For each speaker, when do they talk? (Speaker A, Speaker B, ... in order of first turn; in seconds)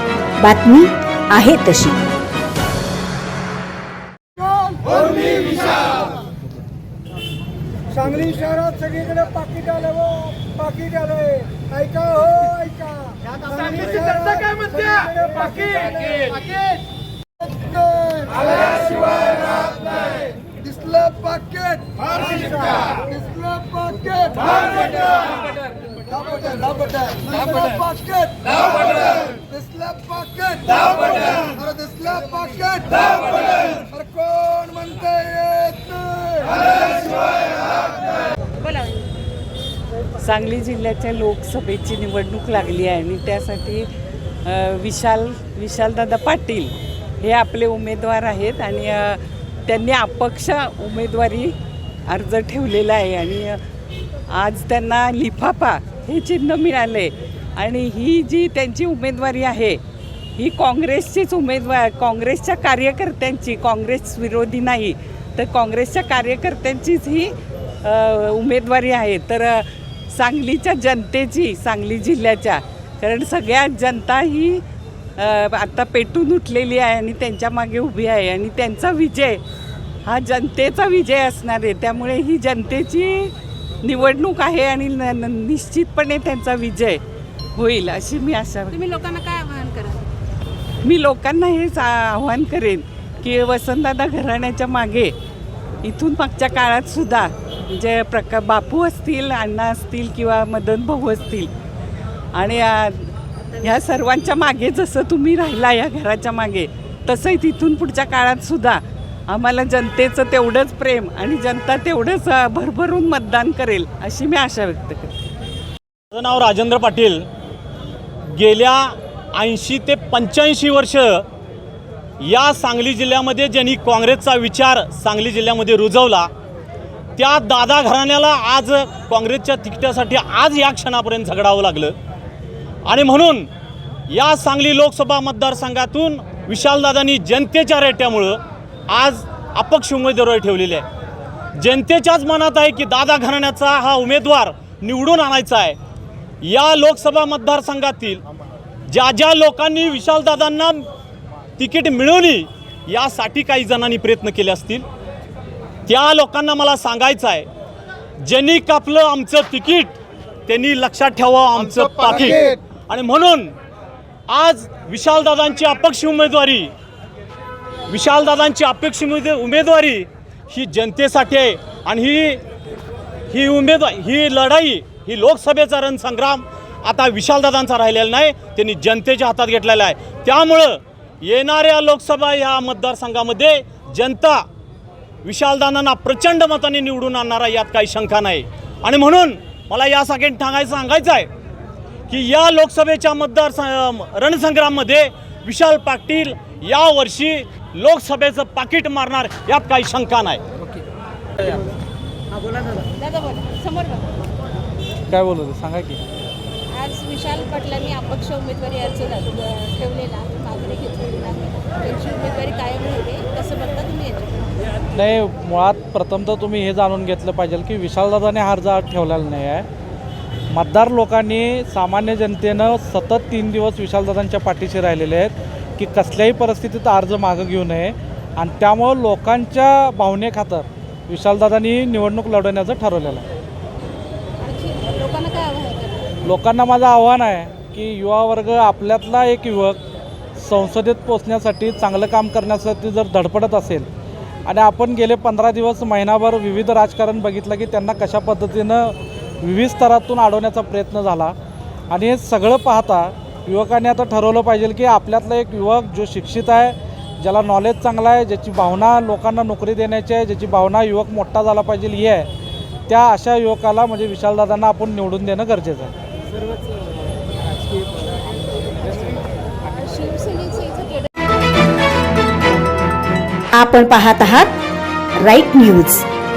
Speaker A: 0.4-2.0, 273.5-274.5, 275.2-276.1
Speaker B: 5.2-5.7, 8.1-12.7, 13.7-16.3, 17.6-19.9, 20.6-25.2, 26.1-37.4
Speaker C: 40.2-43.9, 44.4-51.5, 52.1-53.6, 54.3-59.8, 60.4-74.6, 75.2-79.4, 80.0-87.0, 87.5-88.8, 90.8-95.1, 95.8-101.5, 102.3-115.1
Speaker D: 88.7-90.0, 202.9-204.1, 206.7-214.6, 234.4-236.1, 269.6-271.1
Speaker E: 116.1-117.3, 118.2-121.2, 122.2-126.3, 127.2-131.9, 132.8-133.5, 134.1-140.8, 141.6-145.8, 146.4-148.2, 148.9-150.9, 151.6-154.8, 155.8-157.5, 158.2-159.9, 160.4-163.5, 164.3-166.7, 167.9-172.4, 173.3-184.4, 185.2-191.3, 192.1-200.4
Speaker F: 205.1-206.0, 214.9-219.7, 220.5-233.2, 236.2-239.8, 240.4-243.9, 244.4-251.3, 251.9-262.3, 262.9-265.9